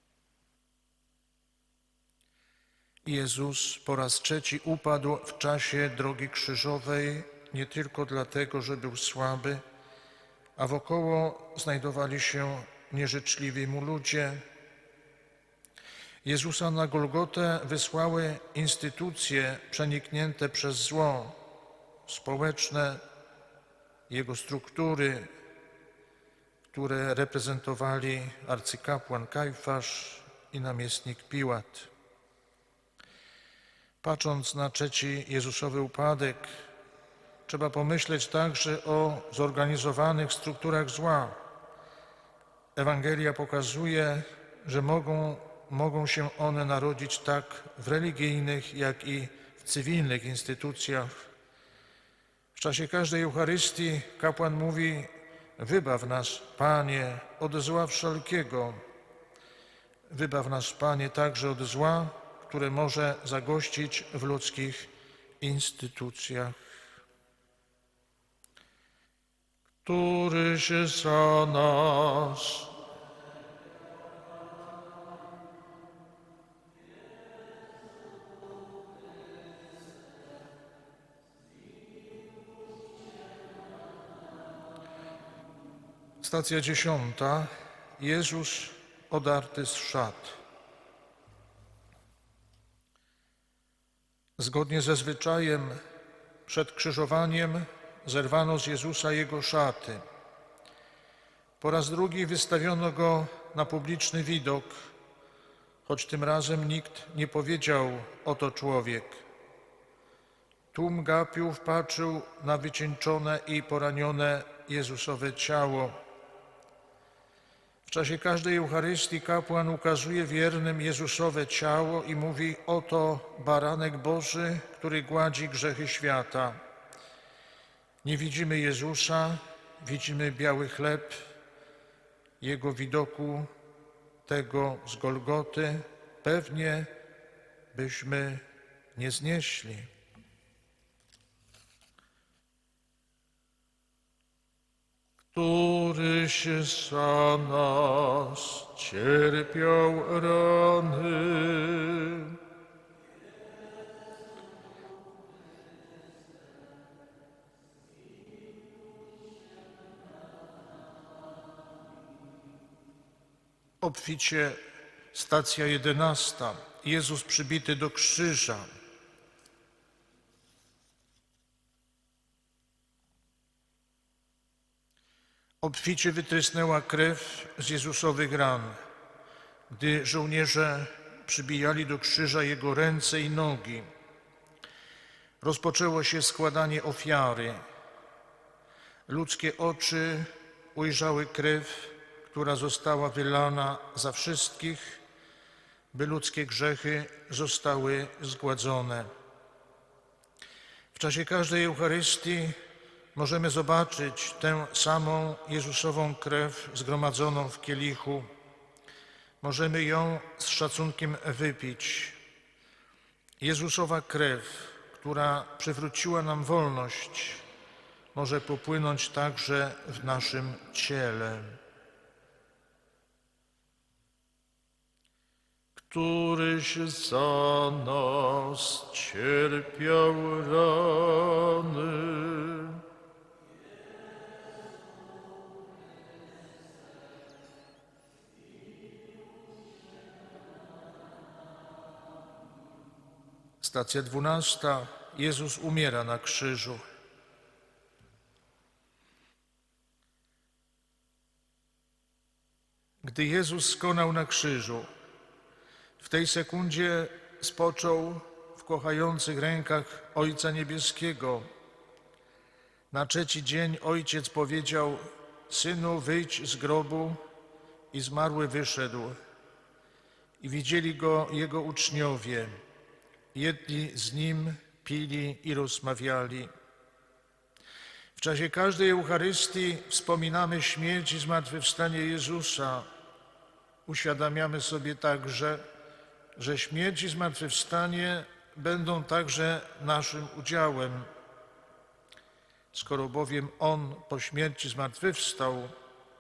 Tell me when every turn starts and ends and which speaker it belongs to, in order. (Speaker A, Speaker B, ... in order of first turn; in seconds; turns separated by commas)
Speaker A: 3.0-9.6, Speaker A: 10.6-14.4, Speaker A: 16.2-21.4, Speaker A: 22.1-23.0, Speaker A: 24.1-25.3, Speaker A: 26.7-31.9, Speaker A: 34.0-36.5, Speaker A: 37.5-41.4, Speaker A: 42.8-51.1, Speaker A: 52.5-58.8, Speaker A: 60.1-66.5, Speaker A: 69.8-72.7, Speaker A: 86.2-90.4, Speaker A: 94.4-95.8, Speaker A: 96.5-100.0, Speaker A: 101.6-104.9, Speaker A: 105.8-109.2, Speaker A: 110.7-116.0, Speaker A: 117.9-126.6, Speaker A: 128.0-131.2, Speaker A: 132.4-133.5, Speaker A: 134.2-136.9, Speaker A: 137.7-138.4, Speaker A: 138.9-139.9, Speaker A: 145.3-152.4, Speaker A: 163.8-164.6, Speaker A: 165.1-168.7, Speaker A: 175.6-178.8, Speaker A: 179.7-183.9, Speaker A: 185.4-187.6, Speaker A: 189.1-195.0, Speaker A: 195.9-199.1, Speaker A: 200.9-202.6, Speaker A: 203.1-208.3, Speaker A: 209.4-212.2, Speaker A: 213.4-217.4, Speaker A: 218.1-221.6, Speaker A: 225.8-232.8, Speaker A: 243.6-246.8, Speaker A: 253.0-254.9, Speaker A: 256.0-261.4, Speaker A: 262.9-267.2, Speaker A: 267.9-269.1, Speaker A: 270.4-272.6, Speaker A: 273.3-276.5, Speaker A: 278.1-282.9, Speaker A: 283.9-285.6, Speaker A: 286.4-291.1, Speaker A: 292.7-295.7